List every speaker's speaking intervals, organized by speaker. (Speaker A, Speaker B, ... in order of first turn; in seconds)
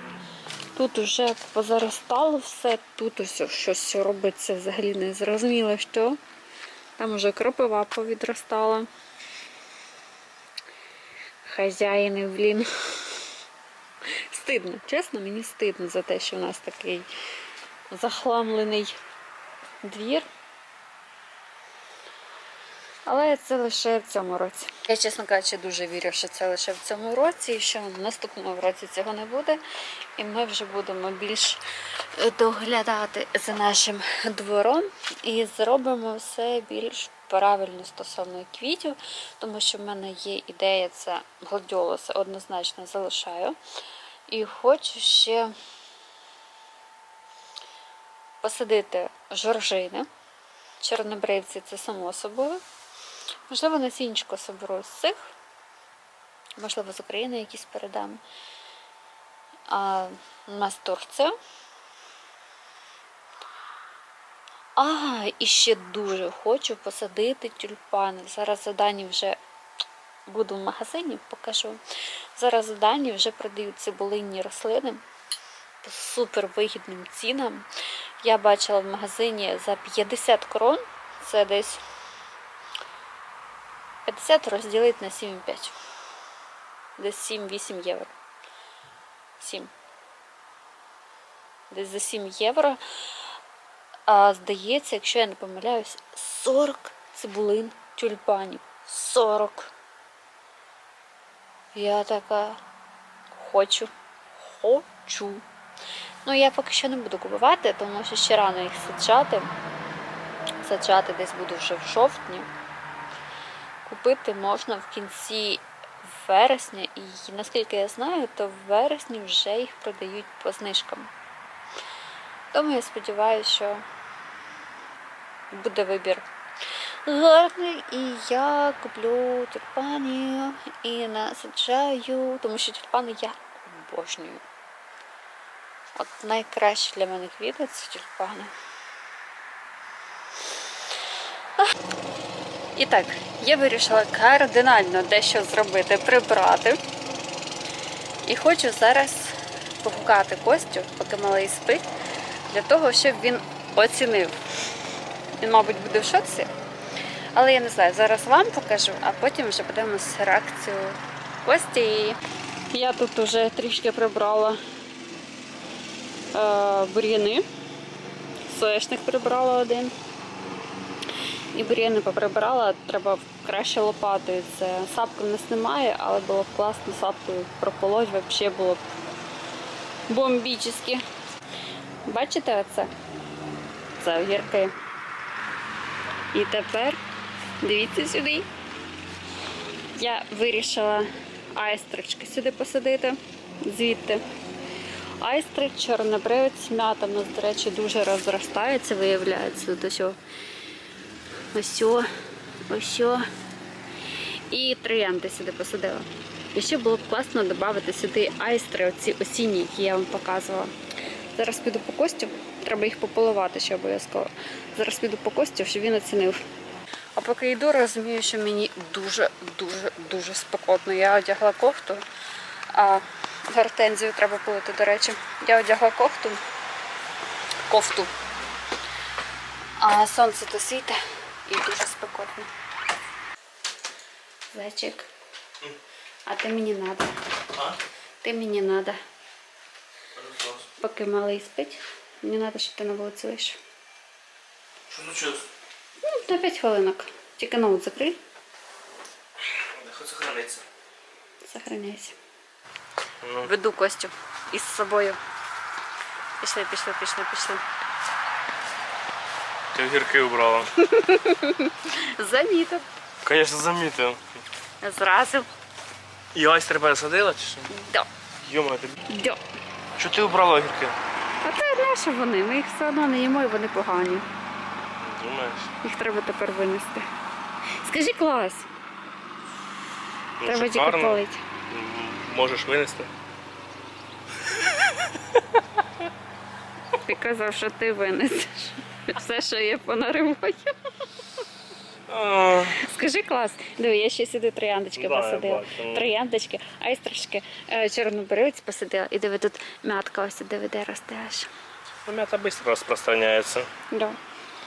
Speaker A: 0.7-6.2, 7.0-8.9, 11.4-13.1, 14.3-17.1, 17.9-19.0, 19.8-20.3, 23.1-29.6, 30.2-31.6, 32.1-43.6, 44.3-45.5, 48.4-50.1, 50.8-52.6, 53.5-55.3, 56.6-58.2, 59.7-61.3, 64.8-69.4, 70.3-71.8, 72.3-75.0, 75.8-77.7, 78.2-81.8, 84.0-85.7, 87.0-88.1, 89.4-89.7, 91.7-92.8, 94.1-99.7, 101.7-102.6, 103.3-105.4, 106.2-109.5, 110.6-112.5, 113.8-121.1, 122.5-123.8, 125.5-126.2, 127.0-134.4, 136.0-138.5, 142.7-146.8, 148.2-151.9, 152.5-154.4, 155.4-156.5, 157.3-162.2, 162.7-164.6, 166.3-167.4, 168.5-169.9, 171.5-178.8, 180.1-181.0, 182.1-182.9, 184.0-184.7, 186.3-187.0, 187.6-188.5, 189.9-194.2, 195.2-200.2, 201.5-202.1, 202.7-203.2, 204.5-210.7, 211.3-216.4, 217.2-222.0, 222.7-226.4, 227.7-228.1, 229.8-232.5, 234.5-235.1, 236.3-237.1, 238.2-239.0, 240.8-243.6, 246.0-248.2, 251.4-252.2, 253.4-255.2, 256.4-257.6, 260.9-262.8, 264.8-265.5, 267.7-268.1, 269.1-269.4, 271.4-274.3, 275.8-277.1, 277.8-278.7, 280.4-281.4, 287.0-290.7, 292.7-301.5, 303.9-304.2
Speaker B: 237.5-237.8, 240.1-240.7, 244.9-245.5, 249.5-250.6, 253.2-253.5, 259.7-260.7, 263.2-264.2, 266.3-267.7, 268.4-269.0, 269.9-271.0, 275.0-275.7, 280.4-283.1, 284.4-286.1, 292.1-292.8, 294.9-296.1, 302.1-303.7